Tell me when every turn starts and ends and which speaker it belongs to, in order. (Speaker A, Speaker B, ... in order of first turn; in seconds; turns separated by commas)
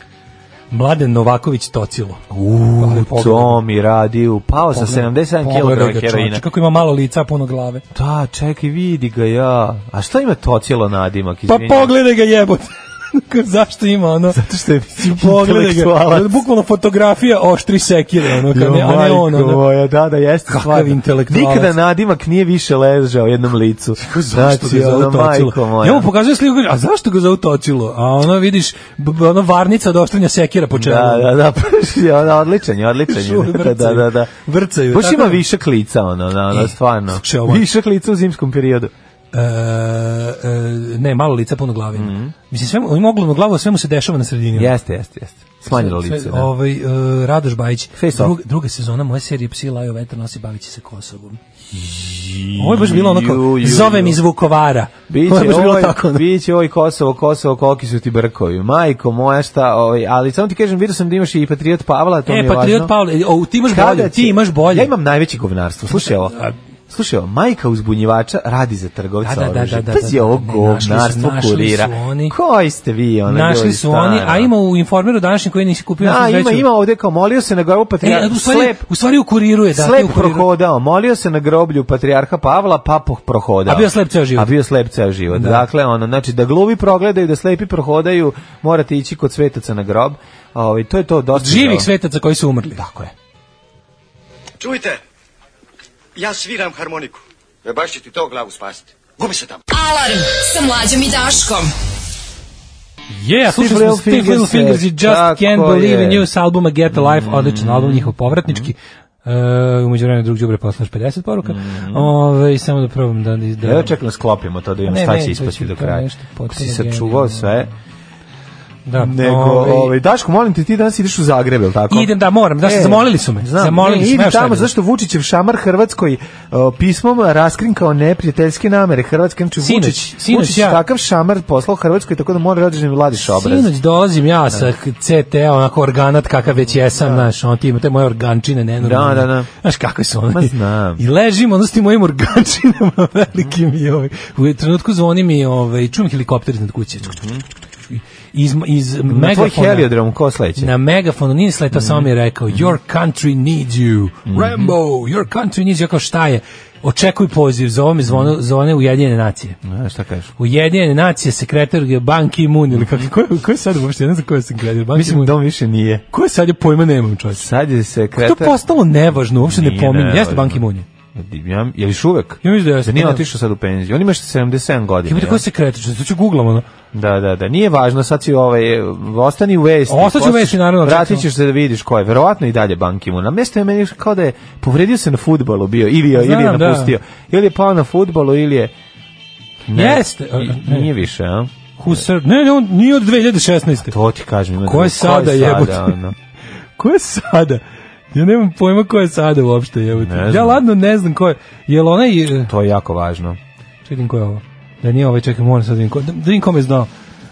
Speaker A: 0.7-2.2, Speaker B: 2.3-6.4, Speaker A: 2.8-3.6, Speaker A: 4.7-7.8, Speaker B: 7.9-11.9, Speaker A: 11.5-14.4, Speaker B: 14.3-16.4, Speaker A: 15.0-19.6, Speaker B: 18.3-26.1, Speaker A: 20.5-21.7, Speaker A: 24.0-31.3, Speaker B: 30.7-34.3, Speaker A: 33.1-35.4, Speaker B: 34.9-38.9, Speaker A: 36.5-37.6, Speaker A: 39.3-44.7, Speaker B: 41.9-42.3, Speaker B: 44.5-46.5, Speaker A: 45.7-51.4, Speaker B: 48.0-48.3, Speaker B: 51.7-54.2, Speaker A: 52.5-56.2, Speaker B: 55.1-62.9, Speaker A: 62.3-64.9, Speaker B: 63.6-66.4, Speaker A: 65.9-66.5, Speaker B: 66.9-74.5, Speaker A: 69.2-72.3, Speaker A: 73.3-76.7, Speaker B: 76.0-78.8, Speaker A: 78.0-80.5, Speaker B: 79.7-91.9, Speaker A: 83.7-84.5, Speaker A: 85.3-85.6, Speaker A: 91.3-92.8, Speaker B: 92.7-93.1, Speaker C: 94.6-95.0, Speaker C: 96.2-99.6, Speaker D: 99.7-101.7, Speaker A: 103.1-113.9, Speaker B: 103.5-106.2, Speaker B: 106.9-108.7, Speaker B: 111.4-112.1, Speaker B: 113.6-117.7, Speaker A: 114.8-117.7, Speaker A: 118.8-119.9, Speaker B: 119.0-133.7, Speaker A: 121.9-124.7, Speaker A: 129.6-130.8, Speaker A: 133.2-147.2, Speaker B: 136.7-137.3, Speaker B: 138.8-139.5, Speaker B: 140.3-141.0, Speaker B: 147.1-147.4, Speaker A: 147.9-149.9, Speaker B: 149.1-150.7, Speaker A: 150.6-159.6, Speaker B: 151.7-152.7, Speaker B: 154.3-154.7, Speaker B: 158.1-158.3, Speaker B: 159.6-160.3, Speaker A: 160.4-165.3, Speaker B: 162.7-163.1, Speaker B: 164.9-166.0, Speaker A: 166.1-167.5, Speaker B: 167.4-168.6, Speaker A: 168.2-170.8, Speaker B: 169.4-170.6, Speaker B: 171.1-175.4, Speaker A: 172.4-173.2, Speaker A: 175.1-176.7, Speaker B: 176.9-188.7, Speaker A: 179.9-181.2, Speaker A: 186.1-186.9, Speaker B: 189.7-192.0, Speaker A: 189.7-190.9, Speaker A: 191.8-193.9, Speaker B: 193.9-196.1, Speaker A: 194.6-196.0, Speaker A: 196.8-197.6, Speaker A: 198.1-202.5, Speaker B: 200.0-200.6, Speaker B: 202.5-203.4, Speaker A: 203.8-206.9